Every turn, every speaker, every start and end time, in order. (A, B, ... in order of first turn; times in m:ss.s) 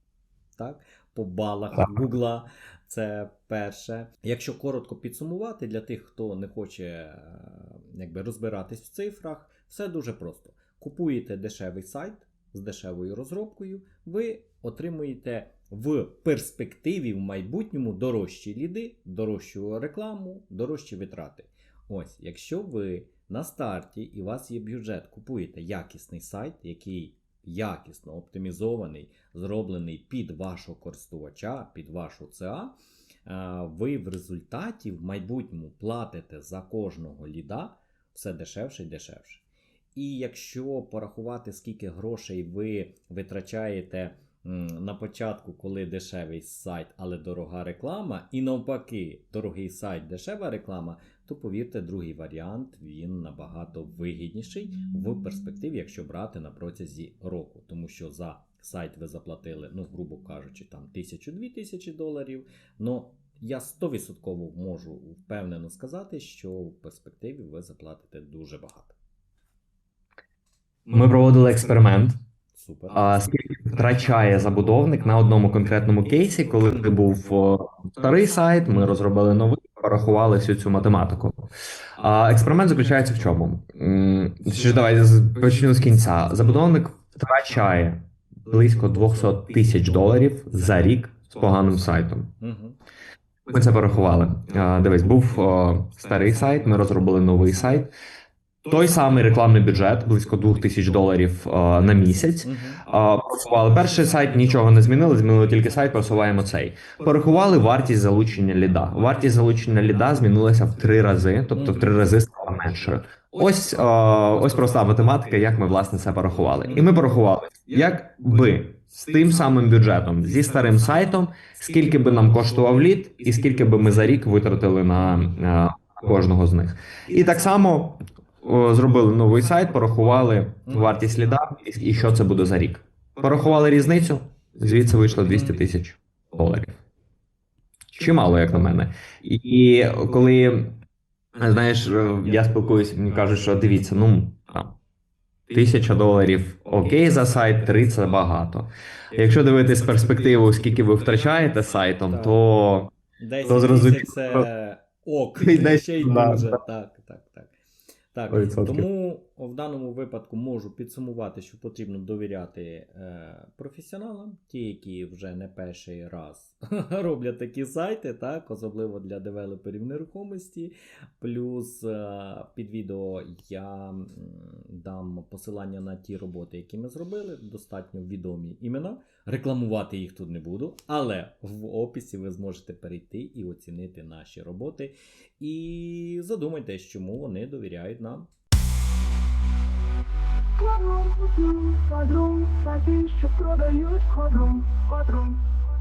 0:00.6-0:32.7 A
0:33.2-0:39.4 A
0:39.9-1:08.9 A
1:10.9-1:12.2 B
1:12.5-1:13.1 A
1:12.9-1:32.3 B
1:32.4-1:32.8 A
1:33.5-1:37.9 B
1:38.6-2:16.8 B
1:42.4-1:42.8 A
1:51.5-1:51.9 A
1:56.6-1:56.9 A
2:10.6-2:10.9 A
2:15.3-2:15.6 A
2:17.9-2:20.8 B
2:21.4-2:24.7 B
2:25.5-2:32.9 B
2:32.1-2:32.4 A
2:33.2-2:37.5 A
2:33.4-2:34.4 B
2:35.4-2:36.6 B
2:38.1-3:08.3 A
2:38.3-2:38.8 B
3:10.6-3:15.5 C